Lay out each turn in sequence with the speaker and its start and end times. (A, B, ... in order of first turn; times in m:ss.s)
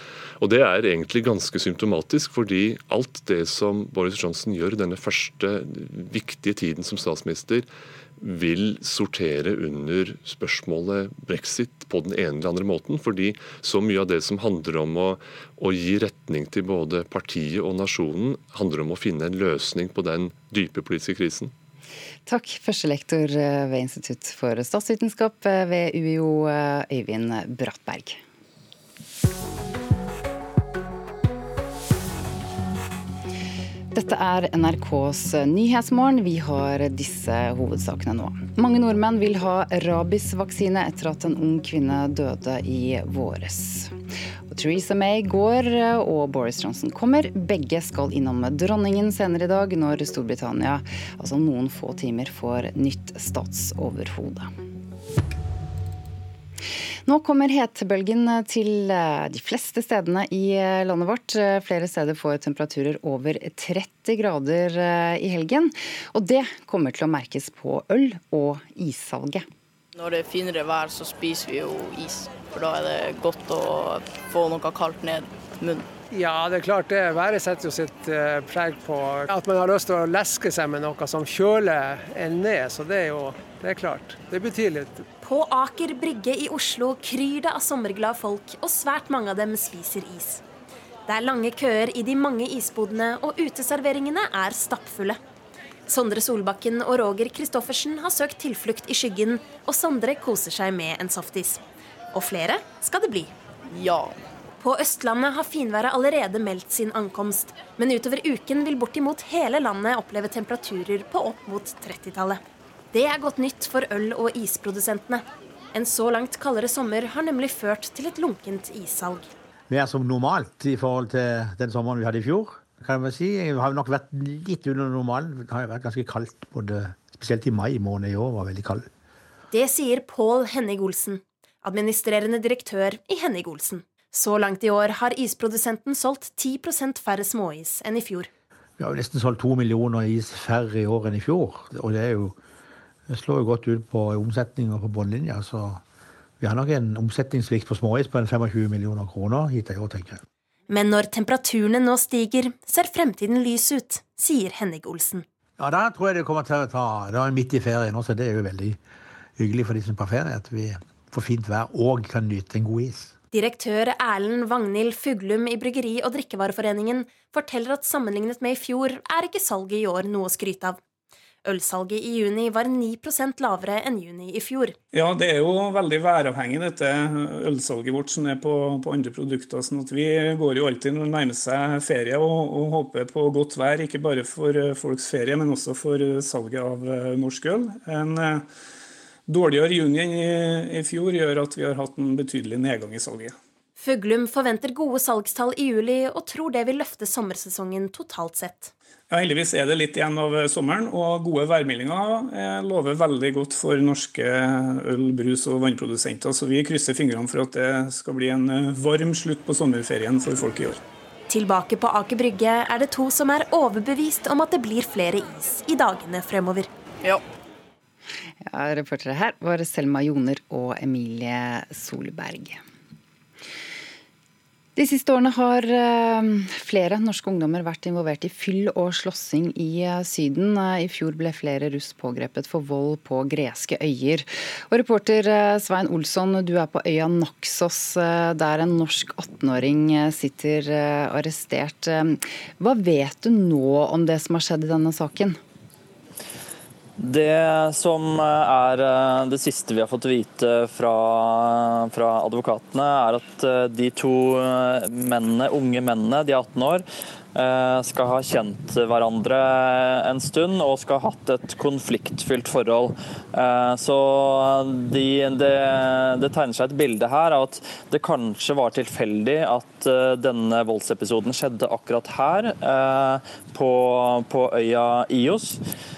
0:00.4-0:07.7 A
0:08.2-0:21.5 A
0:22.3-0:28.2 B
0:33.9-0:54.5 B
0:57.1-1:09.5 B
1:09.9-1:15.9 C
1:16.1-1:25.1 D
1:25.2-1:30.4 E
1:31.1-1:35.2 E
1:35.9-1:43.3 E
1:43.7-1:44.2 C
1:44.6-1:52.4 E
1:52.9-1:59.3 E
1:59.7-2:08.9 F
2:09.5-2:18.3 E
2:18.8-2:22.4 F
2:23.1-2:25.8 F
2:26.4-2:30.2 F
2:30.7-2:35.3 E
2:35.6-2:38.8 F
2:39.4-2:43.2 F
2:43.3-2:50.8 E
2:51.4-2:54.8 E
2:54.9-3:08.4 G
3:09.3-3:13.4 G
3:13.8-3:18.7 E
3:19.1-3:30.8 G
3:31.3-3:36.7 E
3:38.4-3:42.6 B
3:44.8-4:05.4 B
4:07.0-4:35.6 H